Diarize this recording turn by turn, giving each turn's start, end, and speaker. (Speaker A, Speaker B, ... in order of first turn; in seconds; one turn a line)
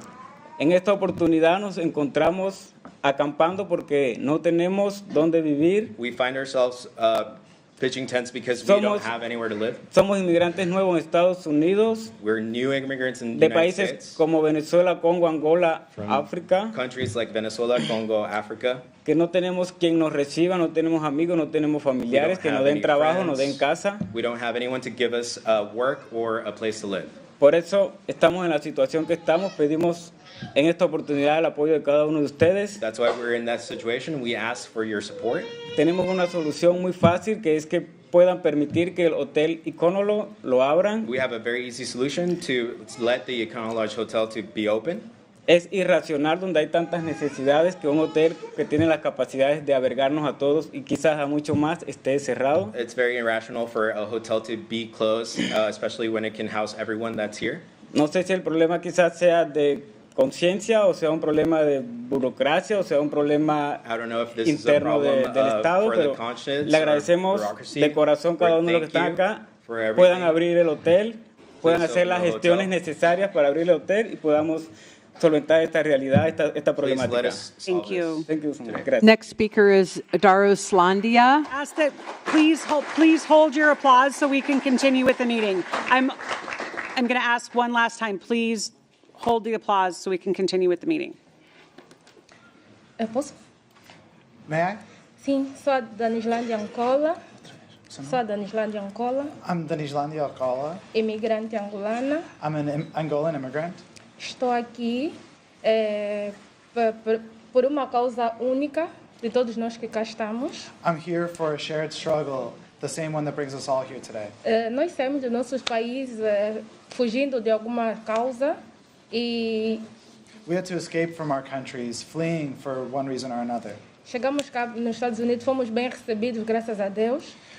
Speaker A: 0.6-6.0
Speaker B: 6.0-9.8
Speaker A: 8.6-9.1
Speaker A: 9.9-12.1
Speaker B: 12.2-14.2
Speaker A: 13.3-16.8
Speaker B: 15.9-18.9
Speaker A: 19.1-24.1
Speaker B: 22.1-27.1
Speaker A: 27.4-32.8
Speaker B: 32.8-35.5
Speaker A: 35.7-41.1
Speaker B: 41.0-45.1
Speaker A: 45.5-52.8
Speaker B: 52.7-57.6
Speaker A: 57.9-63.8
Speaker B: 63.8-70.4
Speaker A: 64.4-77.4
Speaker B: 71.6-72.7
Speaker B: 76.8-78.9
Speaker C: 77.7-78.2
Speaker A: 78.2-79.1
Speaker D: 79.0-81.5
Speaker C: 81.5-91.2
Speaker E: 93.0-93.3
Speaker F: 94.5-94.8
Speaker E: 95.2-97.2
Speaker F: 97.9-98.2
Speaker E: 98.0-99.3
Speaker F: 99.4-100.8
Speaker E: 100.9-102.3
Speaker F: 102.4-103.8
Speaker E: 104.2-110.7
Speaker F: 110.8-114.3
Speaker E: 114.5-118.6
Speaker E: 119.1-119.8
Speaker F: 120.5-123.8
Speaker E: 124.1-127.3